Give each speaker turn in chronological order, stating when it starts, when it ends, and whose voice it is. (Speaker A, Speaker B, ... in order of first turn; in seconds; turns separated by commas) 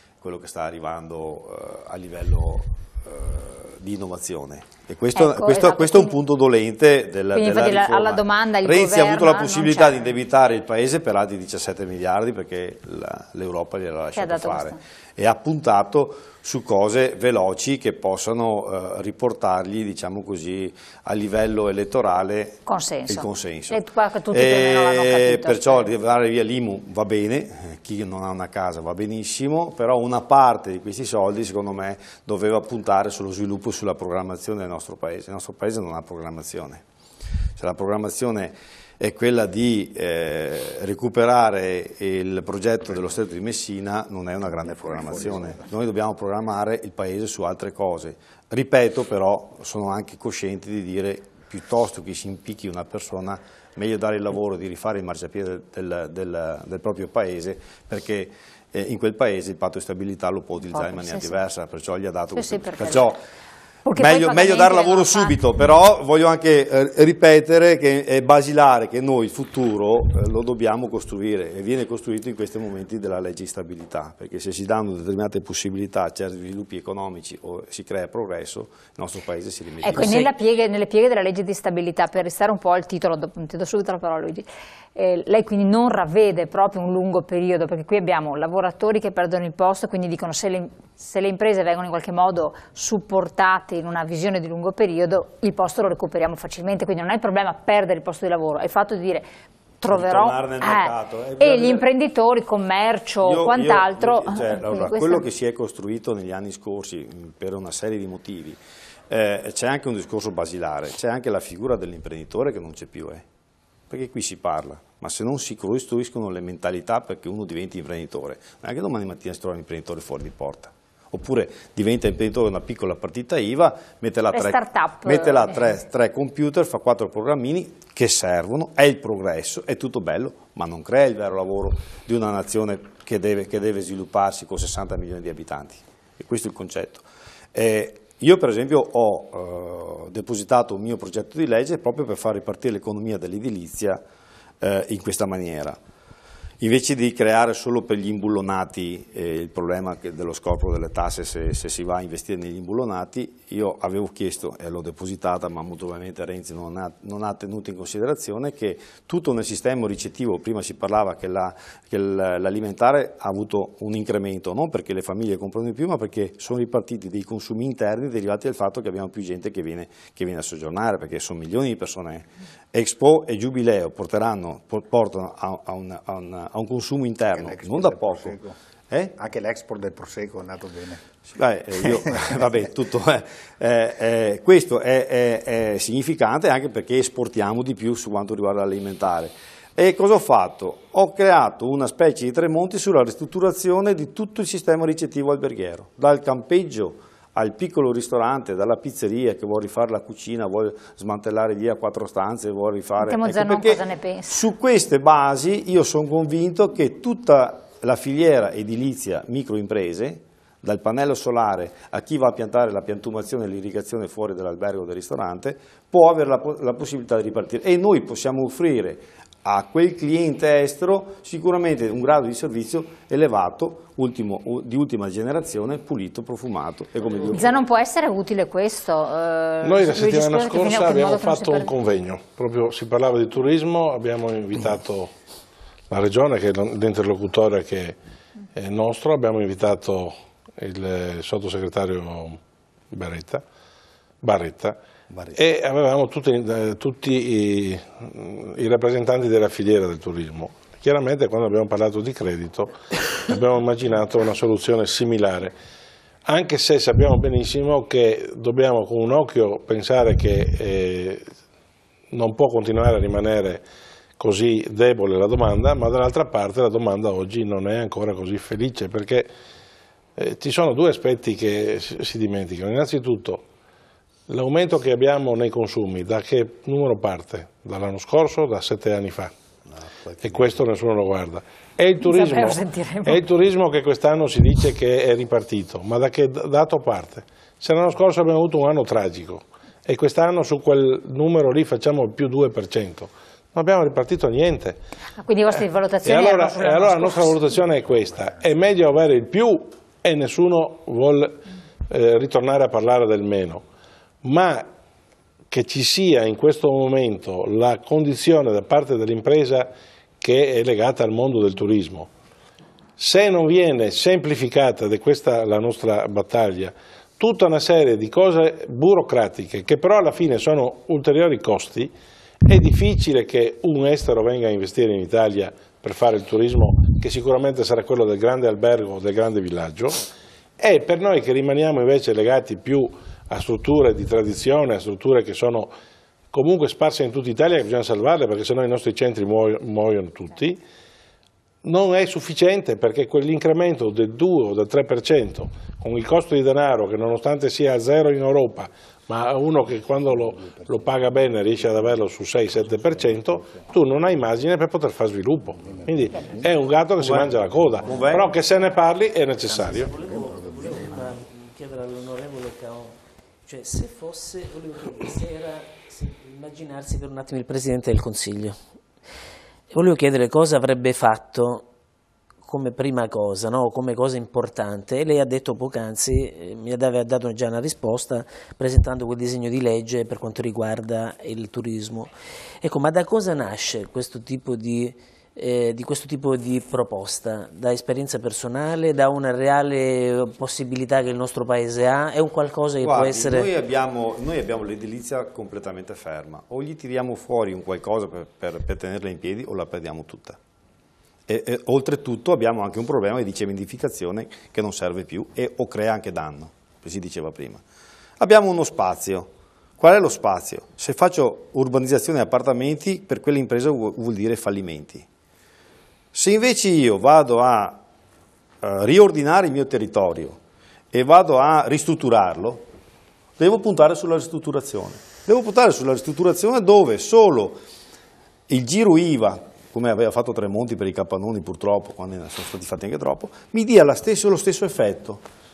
Speaker A: 0.2-36.8, Speaker B: 5.2-6.2, Speaker B: 7.3-10.1, Speaker B: 14.1-14.8, Speaker B: 22.7-25.9, Speaker A: 37.6-63.2, Speaker C: 45.2-45.5, Speaker B: 60.7-61.4, Speaker B: 62.3-63.1, Speaker B: 63.9-65.4, Speaker A: 64.0-80.3, Speaker B: 79.8-99.3, Speaker B: 99.8-105.2, Speaker A: 99.9-101.9, Speaker A: 103.2-108.6, Speaker A: 109.1-113.2, Speaker A: 113.9-144.0, Speaker B: 124.3-125.8, Speaker A: 144.6-145.8, Speaker A: 146.6-178.4, Speaker C: 177.3-178.6, Speaker C: 179.2-181.0, Speaker A: 181.3-227.6, Speaker C: 181.8-182.5, Speaker B: 203.0-204.4, Speaker B: 227.3-231.7, Speaker D: 229.6-235.1, Speaker D: 235.9-238.0, Speaker D: 238.6-242.4, Speaker D: 242.9-243.4, Speaker D: 244.2-244.8, Speaker D: 245.3-255.5, Speaker D: 256.3-261.2, Speaker D: 262.1-263.6, Speaker D: 264.2-269.3, Speaker D: 270.2-273.4, Speaker D: 274.3-279.3, Speaker D: 280.2-294.8, Speaker B: 282.0-283.2, Speaker B: 295.2-297.4, Speaker D: 296.0-303.6, Speaker D: 304.2-304.6, Speaker D: 305.5-309.7, Speaker D: 310.2-312.1, Speaker D: 313.0-321.9, Speaker D: 322.4-330.1, Speaker D: 330.6-335.7, Speaker D: 336.3-340.6, Speaker D: 341.6-359.9, Speaker A: 357.0-358.4, Speaker E: 359.4-368.6, Speaker C: 360.0-361.1, Speaker E: 369.7-371.7, Speaker E: 372.4-382.1, Speaker E: 382.6-393.5, Speaker A: 392.8-400.4, Speaker A: 401.3-407.6, Speaker A: 408.2-415.1, Speaker A: 416.1-417.8, Speaker A: 418.6-420.4, Speaker A: 420.9-422.7, Speaker A: 423.4-427.6, Speaker A: 428.5-435.2